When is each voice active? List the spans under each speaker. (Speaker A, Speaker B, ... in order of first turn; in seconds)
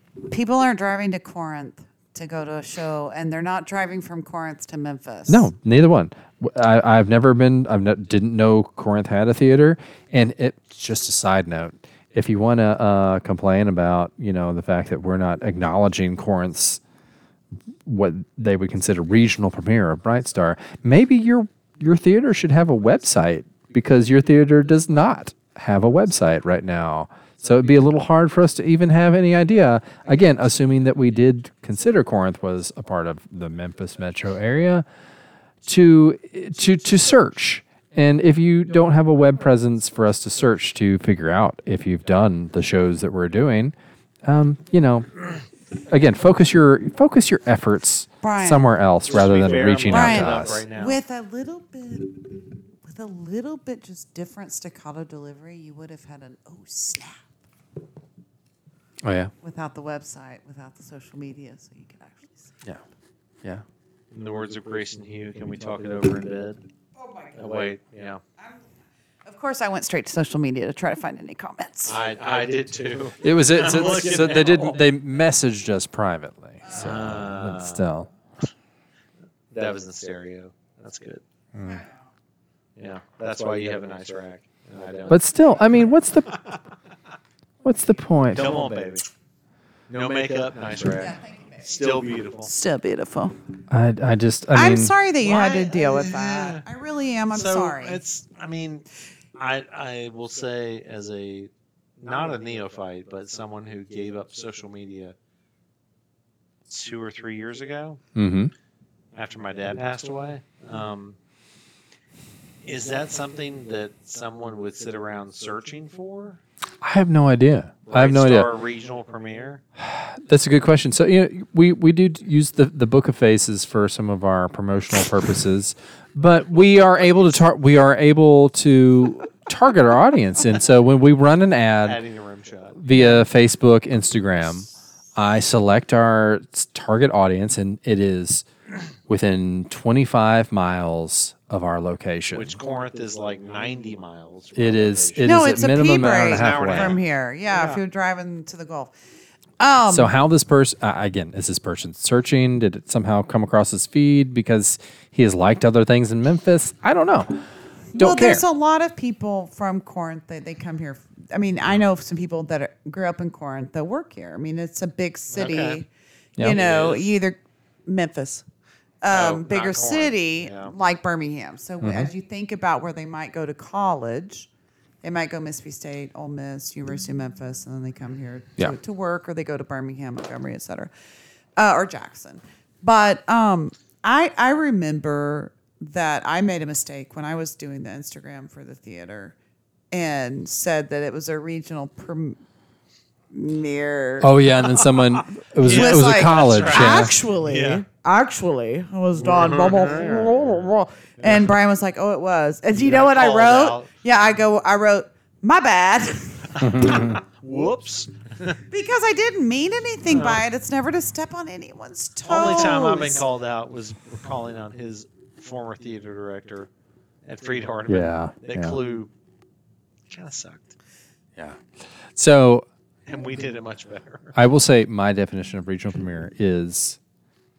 Speaker A: 0.3-5.5, 48.2-48.7, 49.9-57.2, 59.4-62.5, 67.0-67.7, 69.2-72.0, 81.6-82.0, 90.9-93.4, 94.5-98.0, 145.2-148.9, 149.6-150.1, 157.9-168.4, 169.0-174.5, 175.0-180.9, 181.6-189.3, 189.9-192.4, 193.3-194.3, 195.6-207.1, 208.7-213.2
Speaker B: 5.3-16.8, 17.9-34.9, 35.6-45.3, 45.9-50.6, 59.0-59.3, 73.2-78.1, 81.5-81.8, 85.1-86.3, 87.6-88.6, 93.7-94.9, 108.2-108.5, 116.8-118.5, 119.8-132.0, 132.8-138.4, 139.1-142.6, 144.6-147.0, 149.9-158.4, 171.8-172.1, 194.2-197.1, 206.6-207.2, 217.9-218.8, 221.4-222.7, 224.3-227.0
Speaker C: 49.1-51.0, 64.1-66.6, 67.3-68.2, 71.8-74.8, 76.7-77.8, 79.5-81.2, 82.8-85.2, 88.3-89.0, 89.9-92.5, 95.2-96.6, 97.3-105.2, 106.7-108.0, 109.2-111.2, 112.6-116.4, 117.9-119.6, 131.8-132.9, 142.3-145.5, 146.2-147.8, 165.3-165.8, 166.5-167.1, 169.1-170.7, 195.6-197.8, 199.2-200.7, 201.2-201.5, 202.7-203.9, 206.6-208.6, 210.1-210.4, 212.2-216.7, 217.2-219.1, 220.1-220.8, 223.1-224.4